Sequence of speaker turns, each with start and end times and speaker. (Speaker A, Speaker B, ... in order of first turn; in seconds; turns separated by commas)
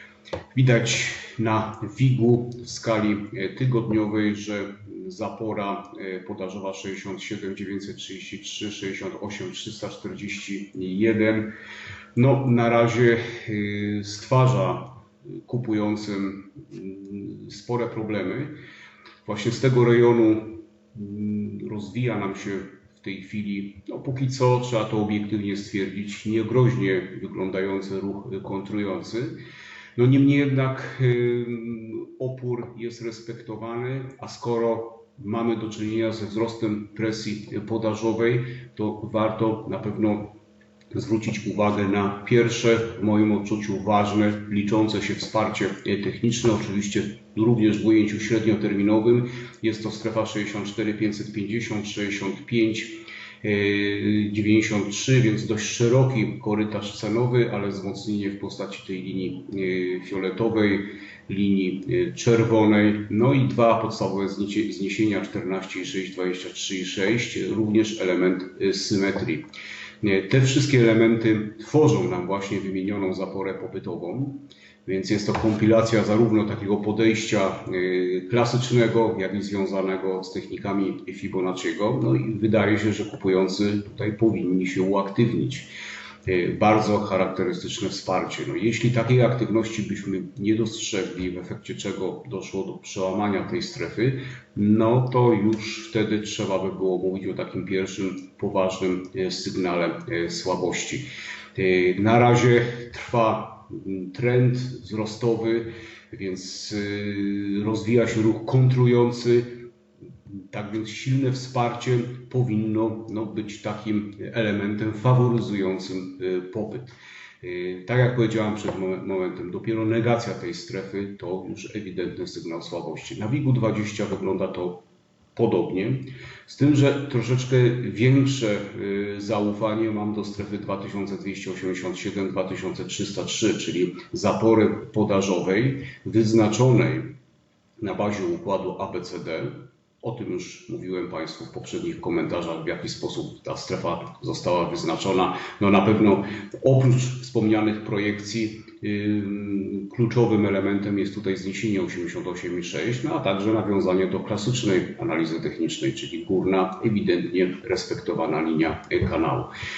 Speaker A: 0.5-11.5, Speaker A: 12.2-18.5, Speaker A: 19.2-29.4, Speaker A: 29.9-40.4, Speaker A: 40.9-69.5, Speaker A: 70.0-85.7, Speaker A: 86.2-109.7, Speaker A: 110.3-124.8, Speaker A: 125.3-137.1, Speaker A: 137.8-159.5